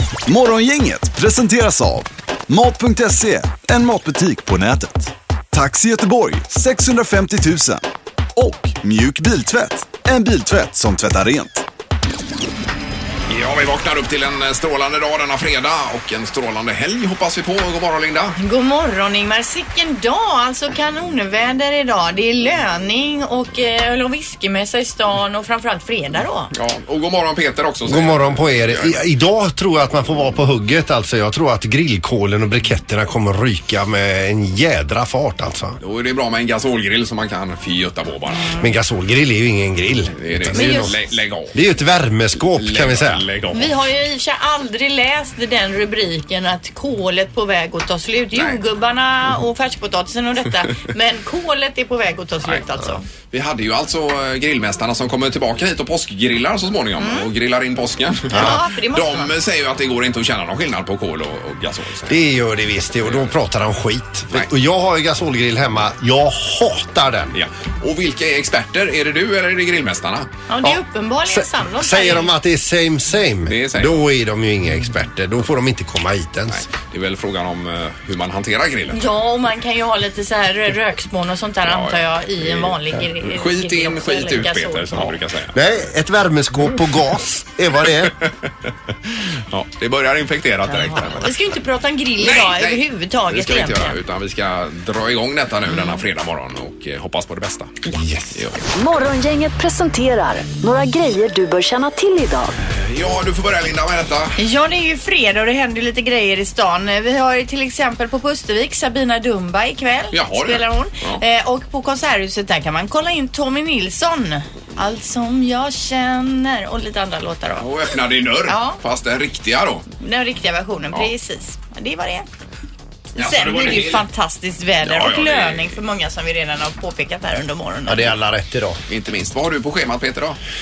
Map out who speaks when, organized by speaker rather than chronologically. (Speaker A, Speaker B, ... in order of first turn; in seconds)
Speaker A: 0.3-7.8, 8.3-11.6
Speaker B: 13.3-18.4, 26.5-28.9, 35.8-38.5, 40.2-41.5, 42.6-43.7, 53.3-62.2, 63.0-63.3, 67.3-70.3, 73.5-74.0, 76.5-79.0, 81.7-85.6, 88.0-88.5, 89.5-91.3, 92.2-97.8, 98.3-98.6, 102.7-104.4, 110.1-111.2, 117.6-119.8, 123.2-124.0, 124.8-125.8, 128.9-130.4
Speaker C: 18.4-26.5, 40.5-40.9, 43.5-53.0, 57.0-57.3, 58.3-59.3, 70.5-72.3, 78.9-85.1, 90.8-94.0, 104.4-117.7, 118.5-118.8, 120.0-122.3, 123.2-128.2
Speaker D: 27.8-35.8, 38.6-40.9, 41.5-43.2, 58.3-58.6, 62.1-67.4, 70.6-76.6, 85.5-88.1, 97.9-98.4, 127.8-128.8
Speaker E: 98.7-102.5